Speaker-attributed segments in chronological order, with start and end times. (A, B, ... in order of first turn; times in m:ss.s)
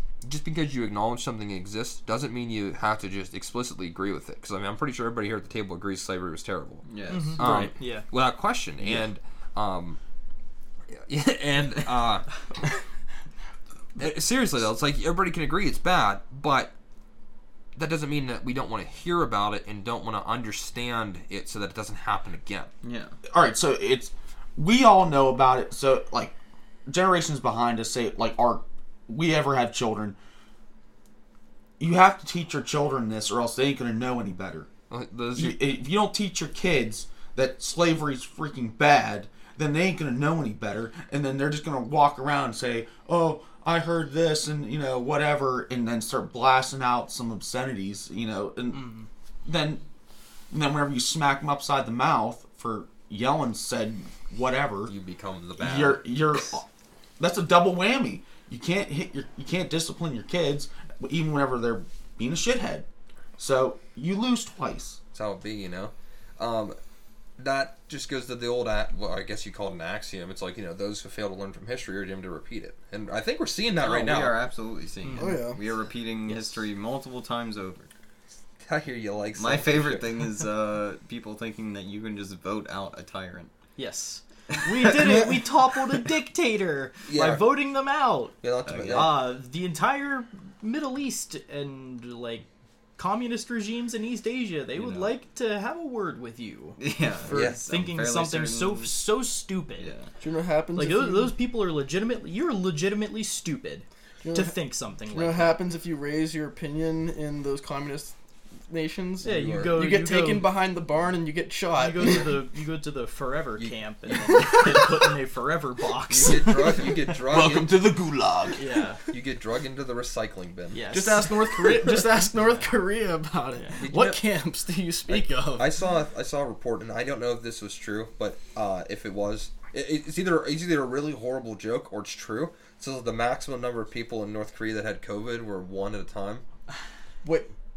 0:00.2-0:10.0 A
0:06.8-0:07.5 B
0:07.1-0:08.1 C
0:08.8-0:09.1 D
0:10.9-0:12.6 A
0:14.0-0:16.7 A
0:17.8-0:22.7 A
0:22.8-0:23.2 B
0:23.3-0:26.4 D
0:26.9-0:30.2 D
0:31.8-0:34.7 D
0:34.9-0:35.6 A
0:35.4-0:49.8 D
0:48.7-0:49.1 C
0:50.5-0:54.9 D
0:54.9-0:56.0 A
0:55.6-0:56.7 D
0:57.2-1:02.9 D
1:03.4-1:05.0 D
1:05.1-1:06.8 A
1:07.4-1:14.4 A
1:13.8-1:17.9 B
1:15.0-1:15.4 C
1:15.2-1:15.6 E
1:16.3-1:16.6 C
1:18.6-1:20.1 A
1:19.4-1:23.5 B
1:23.8-1:32.5 C
1:27.1-1:27.5 A
1:28.4-1:29.1 A
1:28.6-1:29.1 B
1:33.0-1:39.9 C
1:34.8-1:35.1 B
1:36.8-1:38.9 B
1:37.3-1:37.6 A
1:39.8-1:40.1 B
1:40.2-1:41.3 E
1:40.8-1:45.6 C
1:44.2-1:44.6 E
1:45.1-1:52.4 E
1:49.2-1:50.5 C
1:49.2-1:49.7 A
1:51.7-1:57.0 C
1:56.1-1:57.8 A
1:57.2-1:58.6 D
1:58.6-1:59.0 C
1:59.1-2:00.9 A
2:00.7-2:02.7 C
2:00.9-2:05.7 E
2:03.6-2:03.8 C
2:03.8-2:04.2 A
2:05.1-2:16.4 A